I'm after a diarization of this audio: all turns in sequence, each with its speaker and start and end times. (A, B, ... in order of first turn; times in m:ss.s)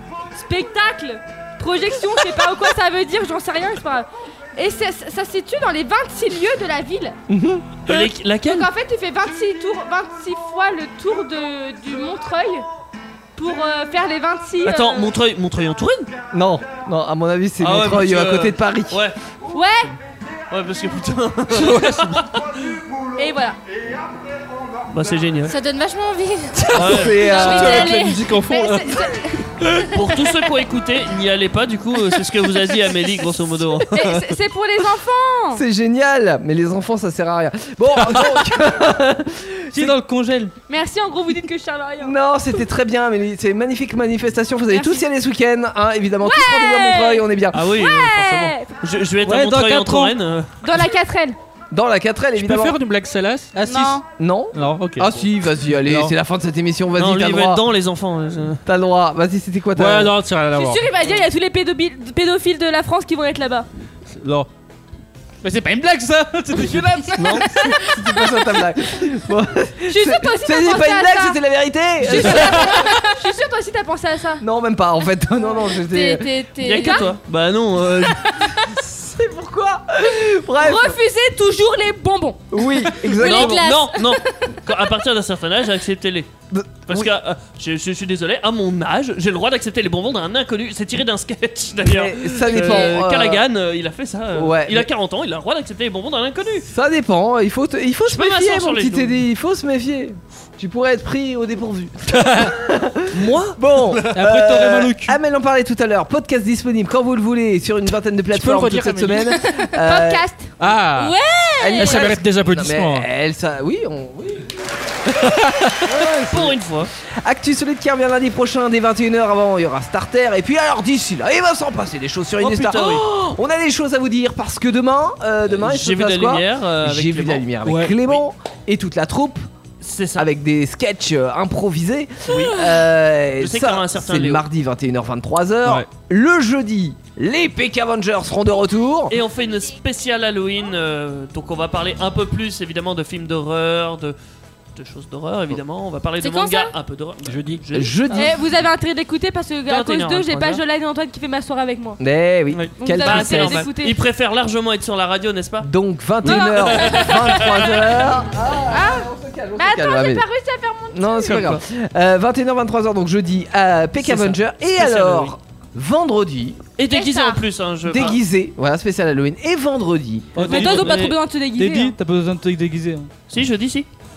0:00.3-0:07.2 A
0:07.3-0:07.9 B
0:07.8-0:08.7 C
0:08.4-0:12.6 A
0:13.4-0:15.1 A
0:14.6-0:16.1 C
0:16.3-0:19.0 B
0:17.6-0:19.2 C
0:19.5-0:19.9 A
0:20.5-0:22.4 C
0:21.6-0:22.2 D
0:23.2-0:23.6 A
0:24.9-0:25.5 C
0:25.4-0:28.1 E
0:26.7-0:28.1 B
0:26.7-0:27.5 C
0:26.7-0:29.2 D
0:27.2-0:29.5 A
0:29.9-0:34.2 C
0:33.9-0:35.6 A
0:35.5-0:40.0 B
0:39.7-0:40.5 F
0:40.7-0:42.2 A
0:42.0-0:47.8 B
0:44.7-0:45.0 A
0:46.2-0:48.7 A
0:47.5-0:50.7 C
0:49.2-0:50.0 D
0:50.6-0:51.4 A
0:51.7-0:52.8 B
0:52.4-0:53.7 D
0:53.5-0:54.0 F
0:53.6-0:54.0 A
0:54.2-0:57.6 B
0:54.5-0:55.2 D
0:55.8-0:56.1 D
0:57.0-0:58.6 C
0:58.6-1:00.1 B
0:59.8-1:00.9 D
1:00.5-1:03.7 A
1:04.1-1:04.5 D
1:05.4-1:07.5 F
1:07.2-1:13.0 B
1:09.9-1:11.4 A
1:12.0-1:14.4 A
1:14.4-1:16.3 B
1:15.8-1:17.1 E
1:16.6-1:18.4 C
1:18.7-1:21.0 B
1:20.6-1:22.4 A
1:22.5-1:23.7 B
1:23.1-1:24.6 E
1:23.2-1:26.3 C
1:26.5-1:27.1 B
1:26.9-1:36.6 C
1:31.8-1:33.4 B
1:34.3-1:34.9 B
1:36.7-1:50.2 B
1:38.1-1:39.2 C
1:42.1-1:42.5 D
1:44.1-1:45.2 F
1:48.3-1:49.4 D
1:49.5-1:50.6 A
1:50.6-1:51.2 D
1:50.9-1:52.1 E
1:51.6-1:54.6 B
1:51.8-1:53.1 D
1:55.2-1:55.8 D
1:55.8-1:56.6 B
1:56.3-1:56.9 C
1:57.2-2:09.5 B
2:02.4-2:03.1 C
2:05.5-2:07.5 C
2:07.6-2:08.0 D
2:09.8-2:10.3 C
2:10.2-2:19.2 B
2:12.3-2:12.8 C
2:13.4-2:14.4 C
2:19.1-2:24.1 C
2:24.7-2:28.3 C
2:26.2-2:26.7 E
2:27.2-2:27.6 D
2:27.7-2:28.3 B
2:28.1-2:32.0 A
2:29.7-2:30.6 C
2:32.0-2:33.7 B
2:32.5-2:35.7 C
2:32.8-2:34.0 A
2:35.6-2:40.2 B
2:36.2-2:38.0 C
2:36.2-2:37.9 A
2:38.7-2:41.5 A
2:40.9-2:46.6 B
2:41.2-2:41.6 C
2:44.0-2:45.3 C
2:46.8-2:48.2 C
2:46.8-2:47.4 A
2:47.8-2:50.5 B
2:50.3-2:53.1 F
2:50.4-2:51.1 C
2:50.5-2:52.0 A
2:53.3-2:53.9 C